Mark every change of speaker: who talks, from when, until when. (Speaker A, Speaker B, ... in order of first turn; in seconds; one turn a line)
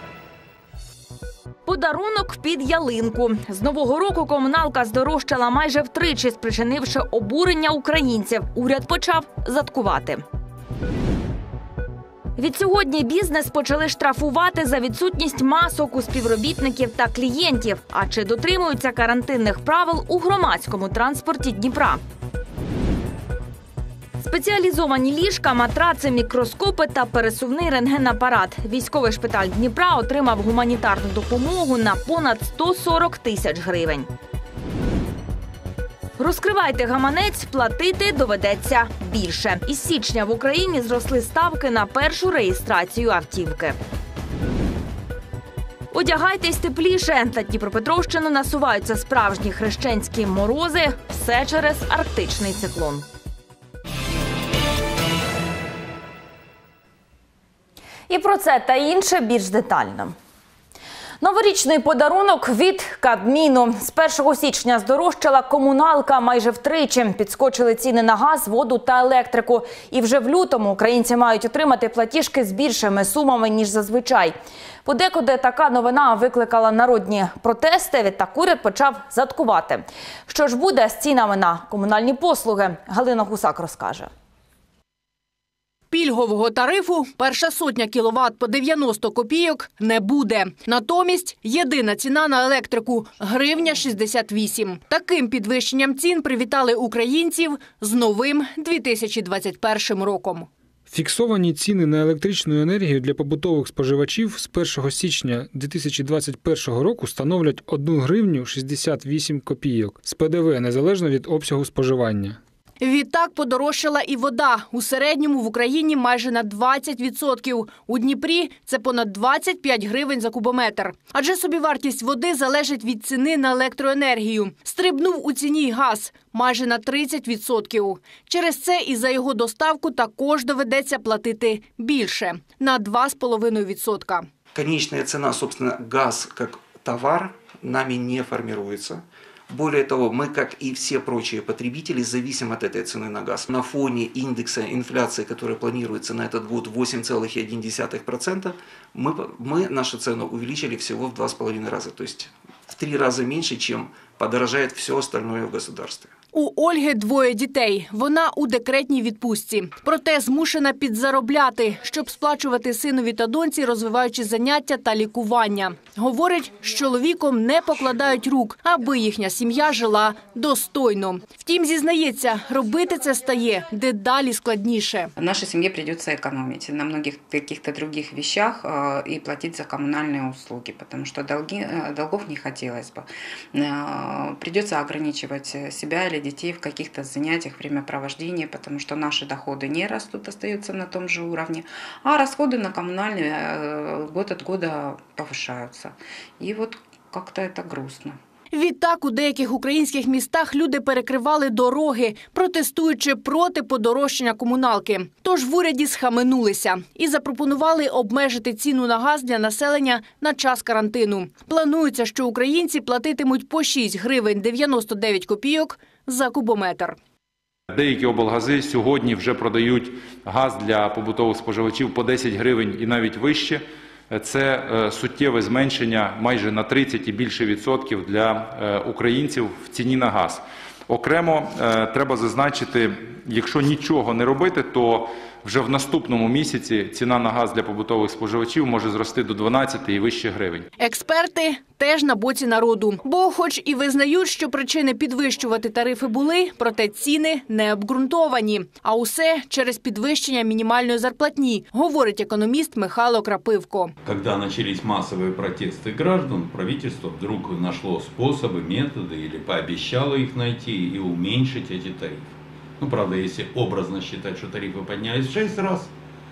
Speaker A: 1.6-10.2
Speaker A: 12.4-22.0
Speaker A: 24.2-34.1
Speaker A: 36.2-43.8
Speaker A: 45.9-53.0
Speaker A: 58.1-60.1
Speaker A: 61.2-84.1
Speaker B: 85.9-100.5
Speaker C: 100.9-112.4
Speaker B: 112.8-134.3
Speaker D: 134.5-156.1
Speaker B: 156.3-175.1
Speaker E: 175.2-198.2
Speaker B: 198.5-217.0
Speaker F: 217.7-240.7
Speaker B: 240.8-253.9
Speaker G: 254.0-262.3
Speaker G: 262.8-265.9